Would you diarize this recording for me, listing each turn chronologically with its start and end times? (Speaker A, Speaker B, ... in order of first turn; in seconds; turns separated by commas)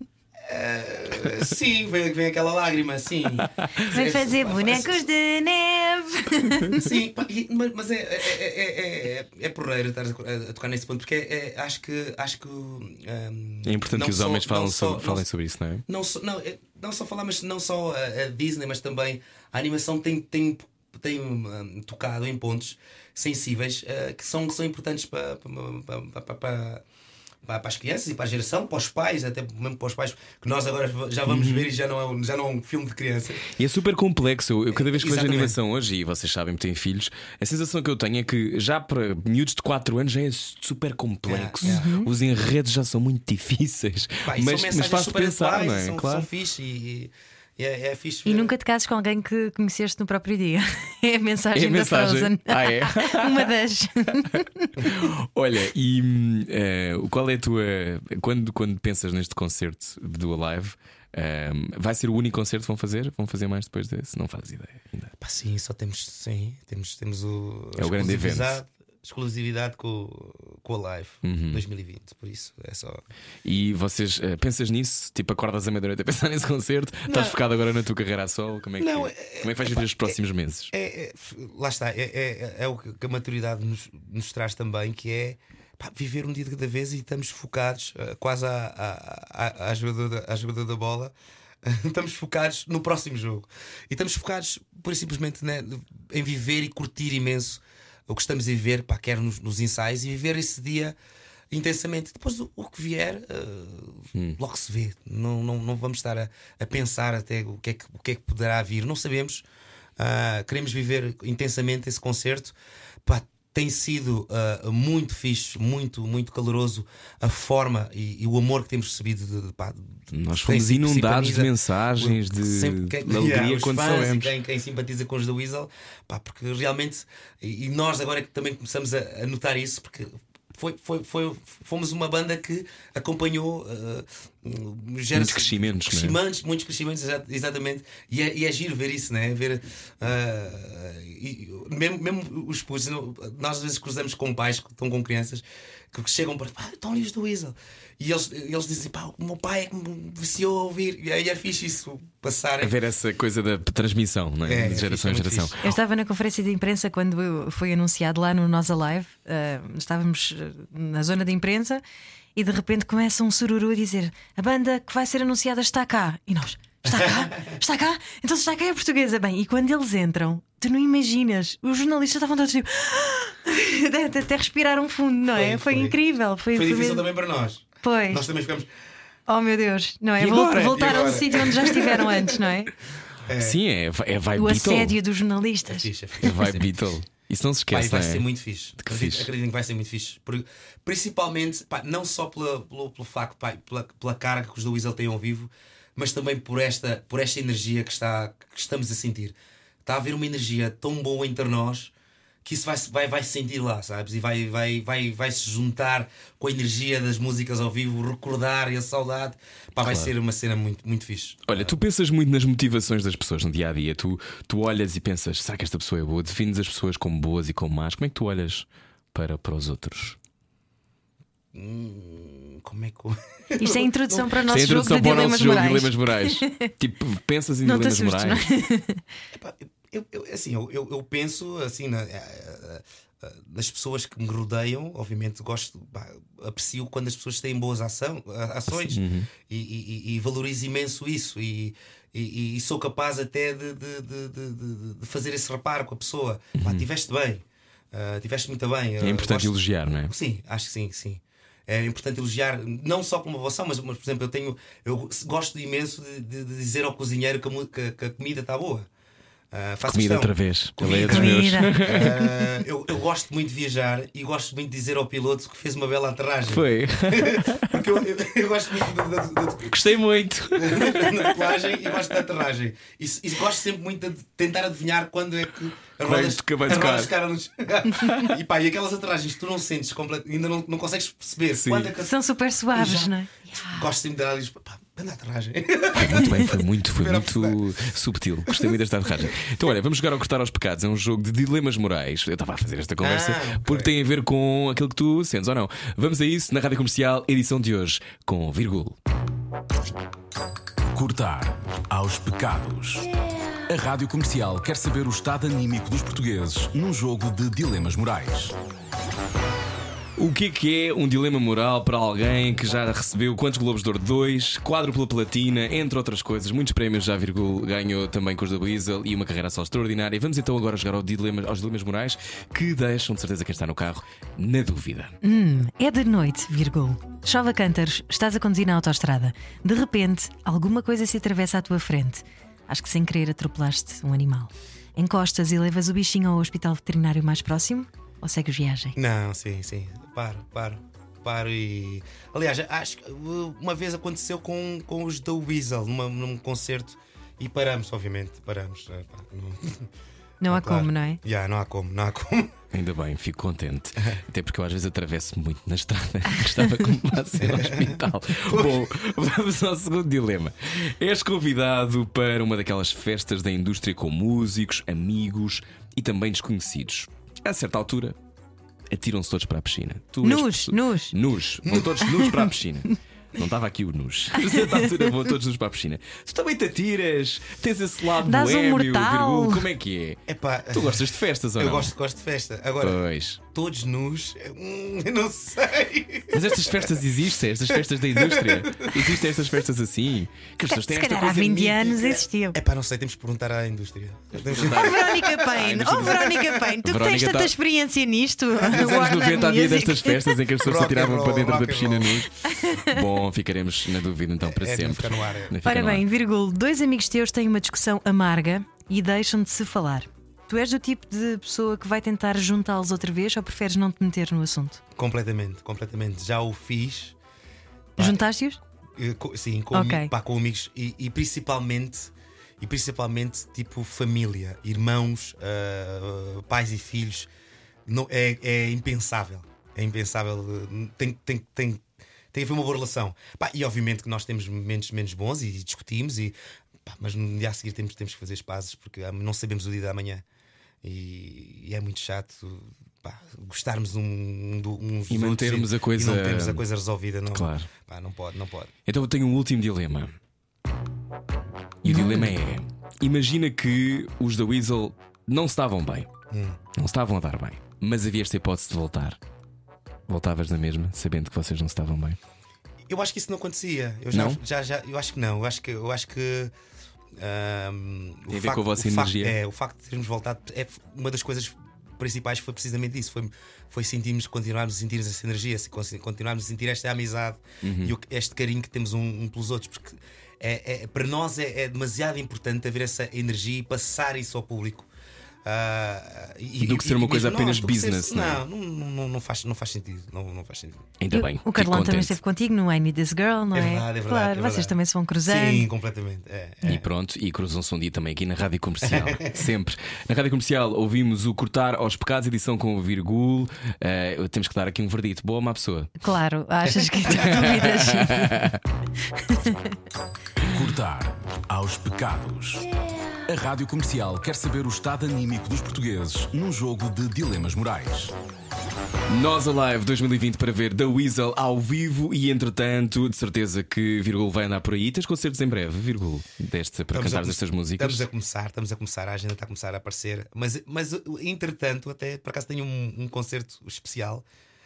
Speaker A: 0.4-5.0, Speaker B: 3.4-3.7, Speaker C: 3.9-6.8, Speaker A: 6.7-15.2, Speaker B: 13.7-15.8, Speaker A: 15.9-26.8, Speaker A: 27.4-33.5, Speaker B: 31.3-31.7, Speaker B: 33.5-46.3, Speaker A: 34.7-35.6, Speaker A: 41.3-41.9, Speaker C: 41.6-42.1, Speaker A: 44.3-48.5, Speaker C: 48.3-54.7, Speaker B: 51.5-53.5, Speaker B: 54.8-65.1, Speaker A: 65.2-73.0, Speaker B: 67.8-68.6, Speaker B: 71.2-71.6, Speaker B: 73.5-80.7, Speaker A: 77.1-77.4, Speaker A: 78.8-80.2, Speaker A: 80.7-101.0, Speaker A: 101.5-109.4, Speaker A: 110.0-152.8, Speaker B: 120.1-124.3, Speaker B: 135.1-136.2, Speaker B: 152.6-155.7, Speaker A: 154.4-155.6, Speaker C: 155.6-161.8, Speaker C: 162.4-177.1, Speaker A: 166.8-167.6, Speaker A: 175.3-176.0, Speaker A: 176.5-178.7, Speaker C: 177.8-178.2, Speaker C: 179.3-182.7, Speaker A: 180.2-182.4, Speaker A: 183.3-183.6, Speaker B: 183.4-185.0, Speaker C: 184.4-185.9, Speaker A: 185.7-186.7, Speaker B: 186.2-188.2, Speaker A: 187.7-201.9, Speaker B: 188.8-189.3, Speaker A: 202.4-211.8, Speaker B: 209.8-210.1, Speaker B: 211.5-220.2, Speaker A: 221.5-224.6, Speaker C: 223.6-226.7, Speaker B: 224.5-228.5, Speaker C: 227.7-229.0, Speaker A: 229.3-258.9, Speaker B: 238.7-239.3, Speaker B: 246.6-246.8, Speaker B: 249.0-250.1, Speaker A: 259.5-269.8, Speaker B: 259.9-262.1, Speaker C: 261.1-262.5, Speaker B: 266.5-267.9, Speaker B: 269.7-271.8, Speaker A: 270.5-282.1, Speaker B: 276.0-277.1, Speaker B: 281.6-281.9, Speaker C: 282.0-283.9, Speaker A: 282.7-287.9, Speaker B: 286.0-299.0, Speaker A: 288.5-289.3, Speaker A: 293.0-293.9, Speaker D: 300.9-303.1, Speaker D: 303.7-308.6, Speaker B: 310.2-325.1, Speaker C: 325.2-339.0, Speaker A: 339.0-349.9, Speaker C: 350.4-351.2, Speaker A: 350.5-352.5, Speaker B: 352.7-368.2, Speaker A: 357.4-358.9, Speaker B: 368.9-381.9, Speaker C: 370.2-371.1, Speaker A: 371.6-372.0, Speaker C: 374.4-374.9, Speaker C: 378.2-379.7, Speaker A: 380.3-381.1, Speaker A: 381.6-387.0, Speaker B: 382.8-383.4, Speaker B: 386.3-391.8, Speaker A: 387.7-389.2, Speaker C: 390.7-392.6, Speaker A: 391.6-396.8, Speaker B: 394.4-397.5, Speaker C: 394.7-400.4, Speaker A: 398.6-399.5, Speaker B: 398.7-406.0, Speaker A: 400.6-402.3, Speaker C: 402.5-403.0, Speaker A: 404.4-405.6, Speaker C: 405.6-414.8, Speaker A: 415.0-417.2, Speaker A: 418.0-418.2, Speaker C: 418.0-418.6, Speaker A: 419.0-427.3, Speaker C: 419.7-420.1, Speaker A: 427.9-440.2, Speaker A: 440.8-448.7, Speaker B: 445.1-446.6, Speaker B: 447.3-447.7, Speaker B: 448.9-450.2, Speaker B: 451.8-456.1, Speaker C: 451.9-452.3, Speaker A: 456.3-456.6, Speaker B: 456.8-459.2, Speaker B: 460.1-462.2, Speaker A: 462.9-466.5, Speaker B: 464.1-464.4, Speaker A: 467.2-484.9, Speaker B: 468.3-469.4, Speaker B: 477.6-477.9, Speaker A: 485.4-490.9, Speaker B: 486.6-488.4, Speaker B: 491.0-492.2, Speaker C: 491.1-495.7, Speaker A: 493.5-496.9, Speaker B: 496.6-505.9, Speaker A: 498.8-499.4, Speaker C: 506.0-508.5, Speaker A: 506.8-507.5, Speaker B: 507.1-508.6, Speaker C: 509.1-509.7, Speaker D: 510.4-512.7, Speaker D: 513.3-518.1, Speaker B: 519.1-528.0, Speaker A: 526.9-534.2